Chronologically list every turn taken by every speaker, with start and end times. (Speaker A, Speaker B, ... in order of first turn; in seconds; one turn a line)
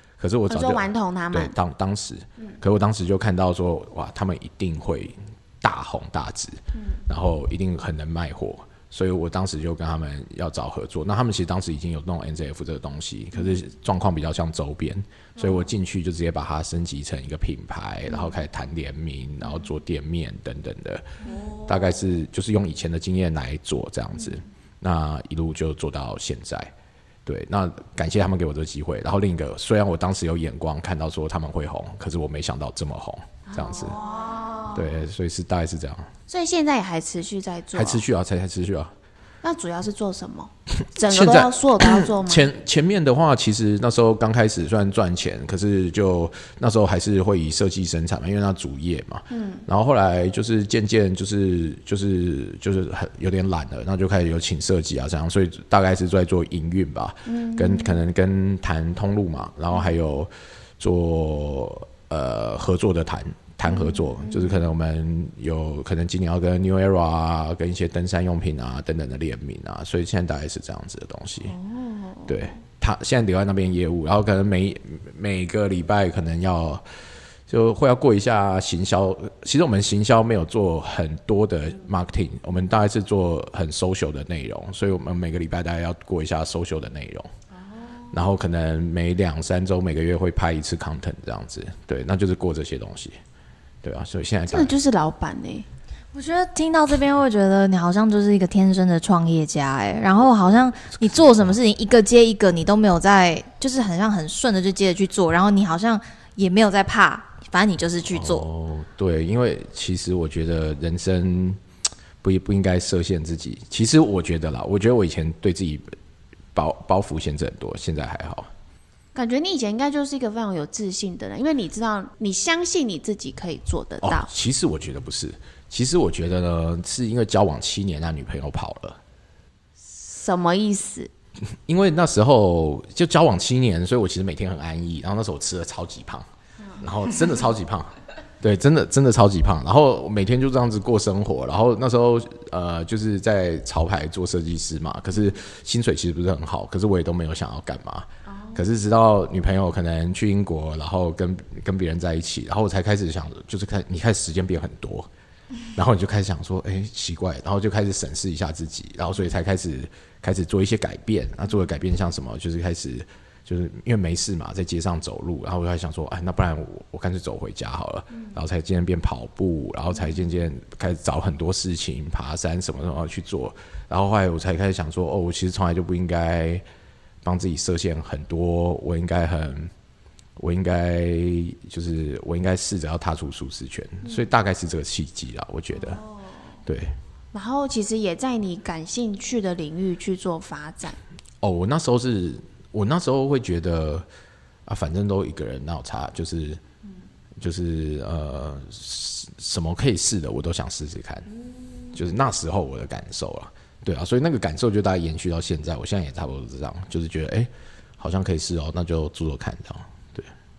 Speaker A: 0.2-21.1
Speaker B: 0.5-1.5
Speaker B: 6.7-7.0
Speaker B: 18.1-18.4
Speaker C: 21.3-21.8
Speaker A: 21.6-26.7
Speaker A: 27.2-34.0
Speaker B: 33.5-34.8
Speaker C: 34.1-34.7
Speaker A: 34.7-36.1
Speaker B: 36.3-38.0
Speaker A: 37.7-38.9
Speaker B: 39.4-42.5
Speaker A: 41.0-71.5
Speaker B: 49.3-49.6
Speaker B: 57.2-58.0
Speaker B: 63.7-64.6
Speaker B: 71.4-72.5
Speaker A: 72.3-76.8
Speaker A: 77.5-87.3
Speaker B: 87.7-88.2
Speaker A: 88.1-93.2
Speaker A: 93.8-94.7
Speaker B: 94.5-95.7
Speaker C: 96.1-108.4
Speaker A: 108.0-111.6
Speaker A: 112.2-115.9
Speaker A: 116.5-118.5
Speaker B: 119.1-124.3
Speaker A: 124.0-129.0
Speaker B: 129.8-131.1
Speaker A: 131.7-136.2
Speaker A: 136.8-155.1
Speaker B: 148.2-148.6
Speaker A: 155.7-176.6
Speaker A: 177.2-179.7
Speaker A: 180.4-186.0
Speaker B: 185.8-186.4
Speaker A: 186.7-186.9
Speaker B: 187.3-191.0
Speaker A: 191.4-194.1
Speaker A: 194.7-196.6
Speaker A: 197.4-201.3
Speaker B: 201.5-201.9
Speaker A: 201.9-210.3